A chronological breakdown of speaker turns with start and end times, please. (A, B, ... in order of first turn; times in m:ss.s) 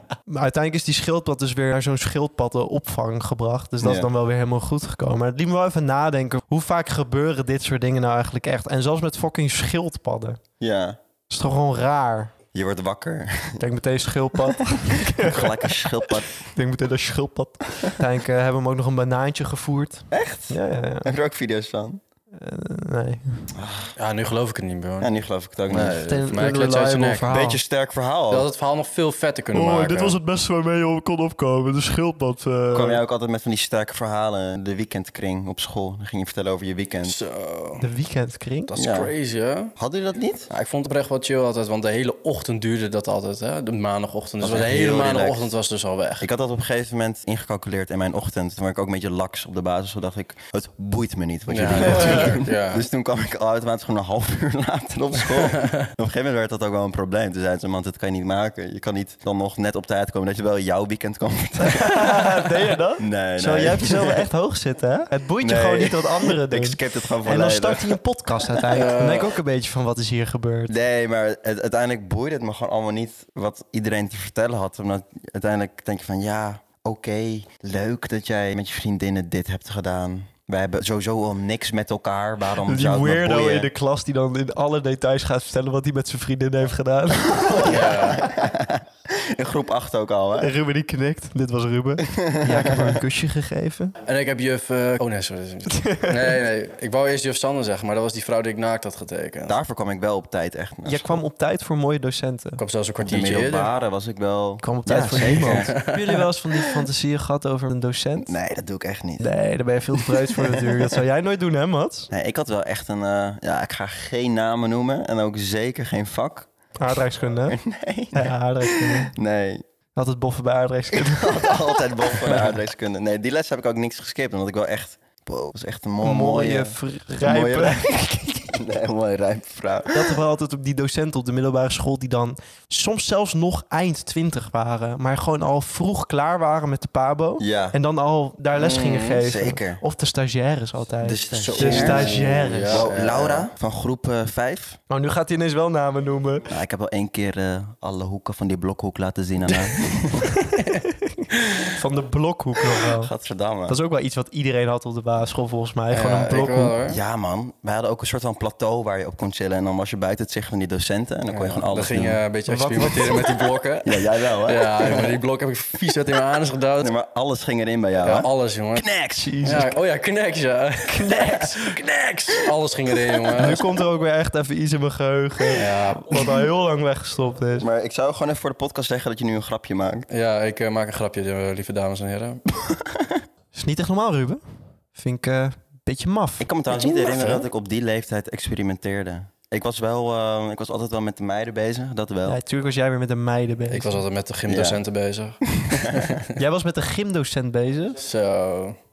0:00.3-0:10.4 A
0:03.8-0:04.1 B
0:10.6-0:11.0 B
0:11.3-0:12.3 A
0:12.5-0:13.6 B
0:13.6-0:21.1 A
0:15.2-0:16.4 B
0:20.1-0:22.0 B
0:22.4-0:23.5 A
0:23.5-0:23.9 B
0:24.0-0:25.1 C
0:25.0-0:26.0 B
0:25.7-0:27.3 C
0:26.0-0:27.6 A
0:27.3-0:28.5 B
0:28.3-0:30.2 C
0:29.5-0:33.0 A
0:32.7-0:37.2 B
0:37.0-0:37.9 C
0:37.8-0:38.7 A
0:38.7-0:39.7 C
0:38.8-0:39.1 B
0:39.8-0:40.5 B
0:40.5-0:46.3 C
0:44.4-0:45.5 B
0:46.2-1:04.2 B
0:51.5-0:52.8 C
1:01.6-1:10.7 A
1:05.4-1:08.0 B
1:08.7-1:09.3 C
1:10.7-1:23.7 B
1:22.6-1:27.8 A
1:27.4-1:30.5 B
1:27.6-1:28.2 C
1:30.4-1:33.9 A
1:32.0-1:33.0 B
1:34.1-1:39.6 C
1:35.7-1:36.1 A
1:39.5-1:41.2 B
1:40.8-1:42.6 A
1:42.6-1:43.7 C
1:43.0-1:45.7 B
1:44.6-1:48.4 A
1:45.1-1:46.2 C
1:48.3-1:49.3 B
1:49.2-1:52.1 A
1:52.1-1:56.5 B
1:56.8-1:57.6 A
1:57.5-1:59.6 B
1:58.1-1:59.1 A
2:00.0-2:01.8 A
2:00.9-2:10.2 B
2:06.0-2:08.4 A
2:09.9-2:22.8 A
2:17.4-2:17.8 B
2:18.6-2:19.8 B
2:21.0-2:24.8 B
2:21.3-2:23.5 C
2:24.9-2:26.5 A
2:26.5-2:30.4 B
2:30.3-2:33.1 A
2:32.8-2:33.8 B
2:33.7-2:36.7 A
2:35.9-2:37.0 C
2:36.8-2:42.2 B
2:41.3-2:46.9 C
2:42.5-2:43.3 A
2:43.8-2:45.2 B
2:46.8-2:49.4 B
2:48.0-2:48.9 C
2:49.2-2:49.7 A
2:49.4-2:53.6 C
2:50.9-2:51.6 A
2:53.4-2:57.7 A
2:55.6-2:56.4 C
2:57.6-3:00.1 B
3:00.1-3:02.4 C
3:02.7-3:03.2 B
3:03.5-3:04.4 A
3:04.9-3:07.4 A
3:06.4-3:12.4 B
3:12.3-3:14.0 A
3:13.7-3:16.3 C
3:14.5-3:14.8 B
3:15.6-3:16.1 B
3:16.4-3:18.0 A
3:18.0-3:18.8 C